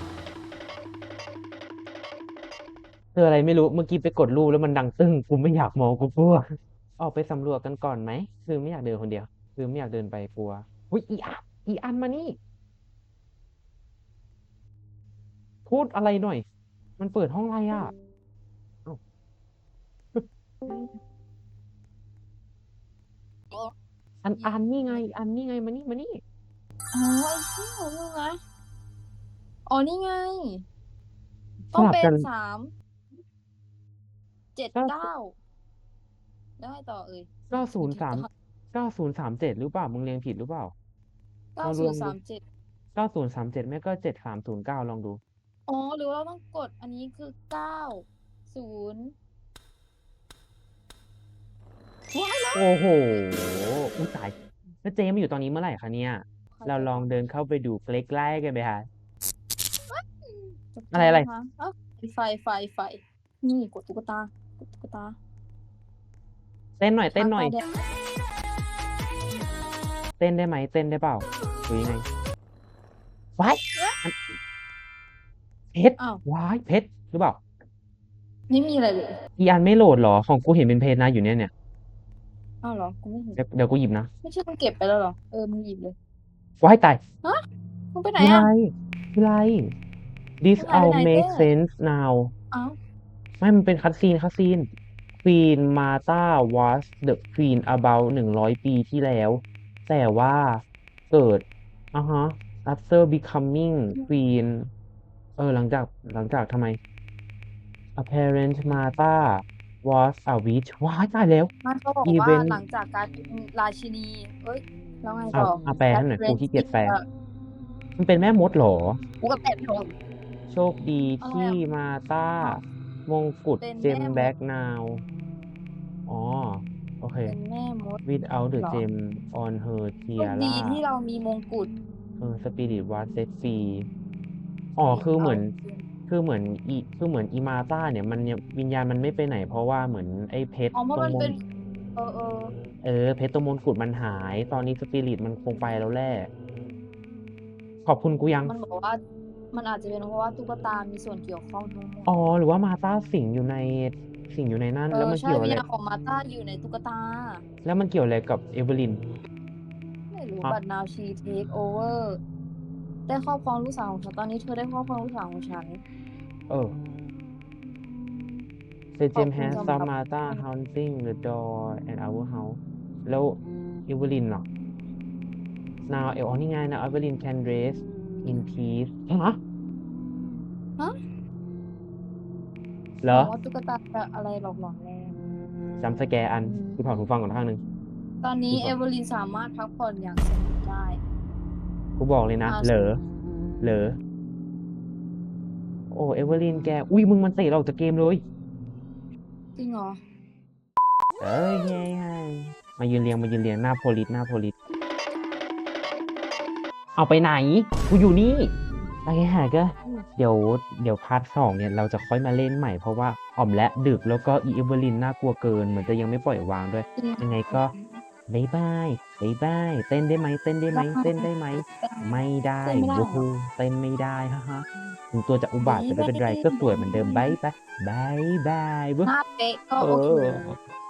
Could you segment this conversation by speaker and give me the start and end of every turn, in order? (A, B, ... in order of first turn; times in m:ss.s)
0:03.1-0:06.4 A
0:07.0-0:12.4 A
0:15.6-0:16.4 A
0:17.0-0:17.9 A
0:20.1-0:20.9 A
0:24.2-0:26.2 A
0:24.4-0:25.0 B
0:26.9-0:28.4 B
0:29.6-0:30.6 B
0:31.7-0:32.3 A
0:31.7-0:32.7 B
0:34.5-0:35.4 B
0:34.7-0:35.1 A
0:36.6-0:38.3 B
0:37.5-0:40.7 A
0:41.6-0:42.4 B
0:41.6-0:42.2 A
0:42.9-0:45.2 A
0:45.7-0:49.1 B
0:52.1-0:52.7 B
0:52.5-0:58.8 A
0:56.5-0:57.1 B
0:59.9-1:05.2 B
1:00.9-1:01.3 A
1:06.8-1:07.6 A
1:07.2-1:07.7 B
1:10.2-1:12.0 A
1:13.4-1:14.2 A
1:15.7-1:17.4 A
1:18.5-1:19.1 B
1:19.4-1:21.5 A
1:22.6-1:23.4 B
1:23.4-1:24.1 A
1:24.2-1:25.9 B
1:26.6-1:27.0 A
1:27.9-1:28.5 B
1:28.2-1:29.7 A
1:30.4-1:32.3 A
1:30.6-1:31.5 B
1:33.4-1:34.6 A
1:35.2-1:44.7 A
1:45.4-1:46.8 A
1:48.0-1:51.5 A
1:51.6-1:57.0 B
1:52.0-1:52.6 A
1:55.3-1:57.0 A
1:58.0-1:59.0 A
1:59.2-1:59.9 B
2:00.5-2:05.0 A
2:01.2-2:01.6 B
2:03.6-2:04.3 B
2:06.1-2:07.4 A
2:07.2-2:08.0 B
2:08.0-2:10.8 A
2:08.5-2:08.8 B
2:10.2-2:11.7 B
2:12.2-2:13.9 A
2:14.8-2:15.5 A
2:14.9-2:15.9 B
2:16.1-2:21.4 A
2:20.7-2:21.4 B
2:22.0-2:22.5 B
2:22.8-2:26.3 A
2:27.8-2:28.6 A
2:28.4-2:29.0 B
2:29.5-2:32.2 B
2:32.0-2:35.6 A
2:34.9-2:37.4 B
2:37.6-2:39.0 A
2:40.1-2:42.2 B
2:43.1-2:45.8 B
2:46.5-2:46.7 A
2:49.0-2:54.5 A
2:49.1-2:50.4 B
2:55.9-2:59.4 A
3:03.0-3:03.3 A
3:03.1-3:05.2 B
3:05.8-3:07.6 A
3:08.2-3:11.0 B
3:08.5-3:08.8 A
3:12.0-3:13.0 A
3:12.4-3:12.9 B
3:13.6-3:14.0 A
3:15.9-3:18.2 A
3:19.6-3:20.0 B
3:21.2-3:24.5 A
3:27.0-3:28.5 A
3:29.0-3:37.7 A
3:37.0-3:38.0 B
3:38.3-3:49.1 A
3:40.7-3:43.3 B
3:45.6-3:47.4 B
3:49.0-3:50.5 B
3:49.8-3:50.5 A